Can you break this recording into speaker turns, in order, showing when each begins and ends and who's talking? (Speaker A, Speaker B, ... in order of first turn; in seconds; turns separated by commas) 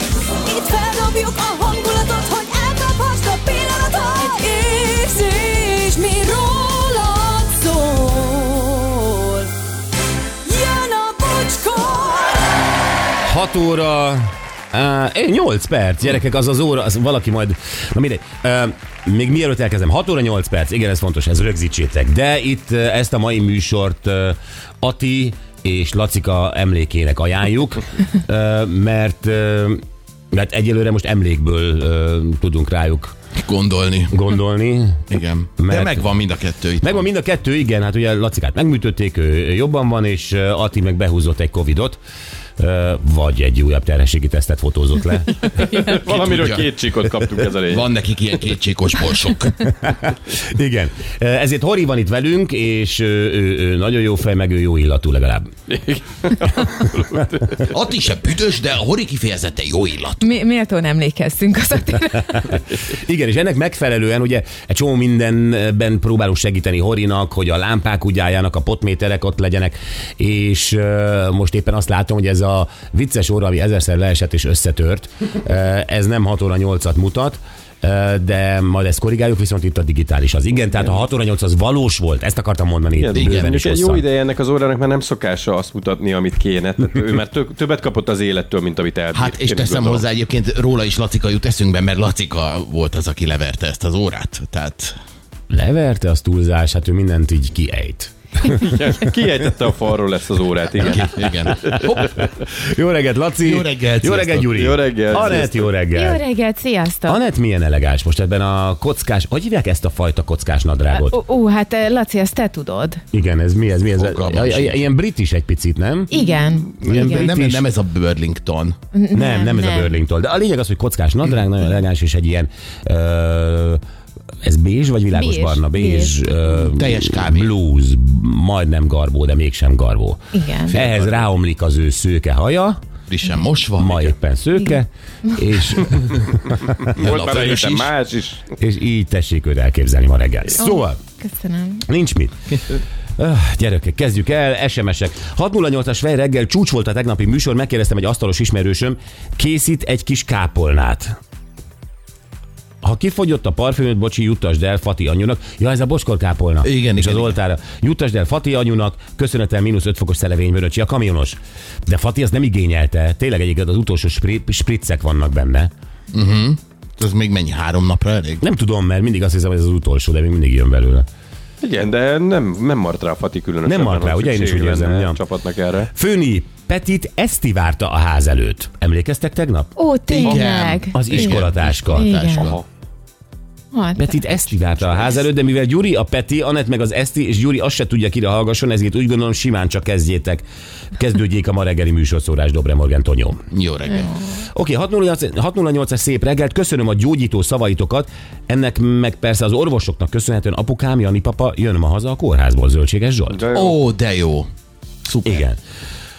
Speaker A: 0.4-9.5, Speaker A: 10.4-12.4, Speaker B: 13.2-33.1, Speaker C: 33.4-34.3, Speaker B: 34.1-36.0, Speaker C: 35.1-37.0, Speaker B: 36.8-42.0, Speaker B: 42.6-45.8, Speaker D: 45.7-47.9, Speaker C: 45.8-46.6, Speaker C: 47.6-49.7, Speaker B: 49.6-55.5, Speaker D: 55.7-57.6, Speaker C: 57.6-60.2, Speaker E: 60.2-62.6, Speaker B: 62.3-84.0, Speaker D: 83.0-90.0, Speaker C: 83.1-83.5, Speaker C: 89.1-94.9, Speaker B: 95.5-98.5, Speaker D: 98.4-102.1, Speaker C: 100.8-102.3, Speaker B: 102.0-106.2, Speaker C: 103.4-104.6, Speaker D: 104.5-105.7, Speaker E: 105.9-107.2, Speaker B: 107.1-111.2, Speaker E: 110.9-113.0, Speaker B: 113.1-116.3, Speaker C: 114.0-114.8, Speaker E: 116.1-117.3, Speaker B: 116.8-117.7, Speaker C: 116.8-118.8, Speaker E: 118.9-119.9, Speaker B: 119.1-123.8, Speaker B: 124.4-132.8, Speaker E: 125.1-126.3, Speaker C: 126.5-127.5, Speaker E: 130.3-130.7, Speaker C: 130.7-131.2, Speaker C: 133.1-134.1, Speaker B: 133.8-137.0, Speaker D: 136.8-138.5, Speaker C: 136.9-137.9, Speaker B: 138.6-141.0, Speaker E: 140.6-141.8, Speaker B: 141.8-151.2, Speaker B: 152.8-165.7, Speaker C: 156.6-157.3, Speaker C: 166.1-168.4, Speaker B: 168.4-171.1, Speaker D: 171.6-175.9, Speaker B: 173.6-175.2, Speaker B: 175.9-179.7, Speaker E: 179.8-181.3, Speaker C: 180.1-182.6, Speaker B: 180.9-182.1, Speaker E: 181.9-182.5, Speaker D: 182.4-182.6, Speaker E: 183.7-184.2, Speaker B: 184.0-193.4, Speaker C: 193.5-194.1, Speaker B: 194.4-203.4, Speaker D: 203.3-203.8, Speaker C: 203.5-204.5, Speaker C: 205.1-205.4, Speaker B: 205.2-205.6